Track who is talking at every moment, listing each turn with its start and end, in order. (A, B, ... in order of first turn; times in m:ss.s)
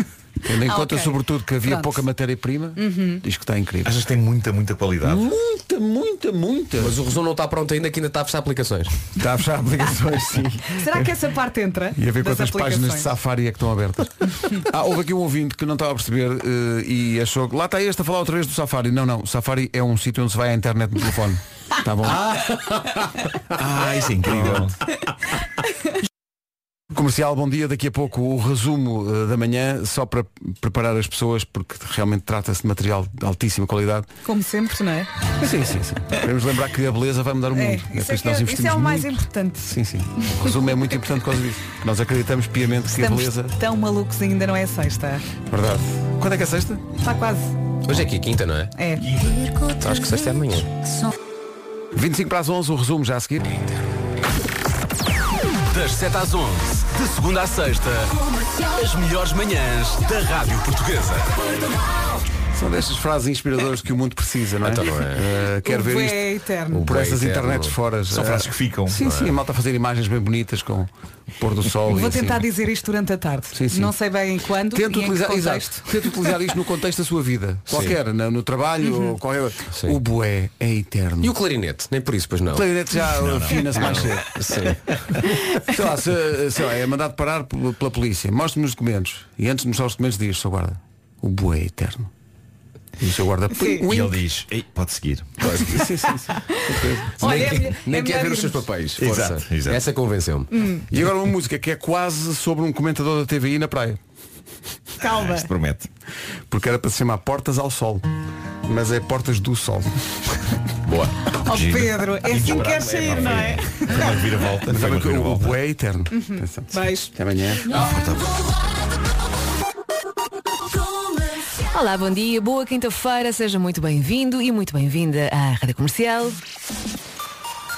0:00.4-0:04.0 A
0:00.6-0:02.0 B
0:02.8-0:03.2 B
0:03.8-0:05.2 C
0:05.0-0:07.0 A
0:06.8-0:09.0 D
0:09.2-0:11.2 A
0:10.7-0:13.1 B
0:12.0-0:22.3 A
0:22.0-0:23.1 D
0:23.5-0:24.7 C
0:24.2-0:24.7 A
0:26.9-0:34.1 A
0:34.2-0:35.1 B
0:35.4-0:39.1 A
0:37.5-0:40.7 B
0:39.6-0:43.5 A
0:43.0-0:45.2 B
0:45.5-0:46.8 A
0:47.0-0:47.6 B
0:47.8-0:48.7 D
0:48.8-0:49.1 B
0:49.7-0:50.7 D
0:51.9-0:53.5 A
0:55.7-1:01.4 E
1:02.5-1:12.4 A
1:04.6-1:05.2 D
1:05.6-1:06.8 B
1:06.7-1:07.8 D
1:08.1-1:09.1 C
1:09.0-1:09.3 D
1:11.9-1:16.3 B
1:13.5-1:13.9 A
1:14.7-1:21.3 A
1:17.7-1:17.9 D
1:18.8-1:19.1 B
1:19.7-1:20.0 D
1:21.2-1:22.7 D
1:22.5-1:24.4 A
1:23.2-1:24.2 C
1:23.8-1:24.8 D
1:25.6-1:32.1 A
1:33.0-1:34.2 A
1:33.5-1:33.8 B
1:33.8-1:35.6 C
1:35.6-1:37.5 A
1:35.6-1:38.6 B
1:37.2-1:40.5 D
1:39.0-1:39.8 C
1:40.5-1:40.8 B
1:40.9-1:44.0 A
1:45.0-1:45.5 B
1:45.0-1:45.9 C
1:46.5-1:48.1 A
1:48.6-1:50.0 A
1:50.8-1:51.1 D
1:51.4-1:54.2 B
1:51.5-1:55.6 C
1:54.7-1:57.8 A
1:56.1-1:57.1 B
1:57.7-1:58.4 C
2:01.7-2:06.4 F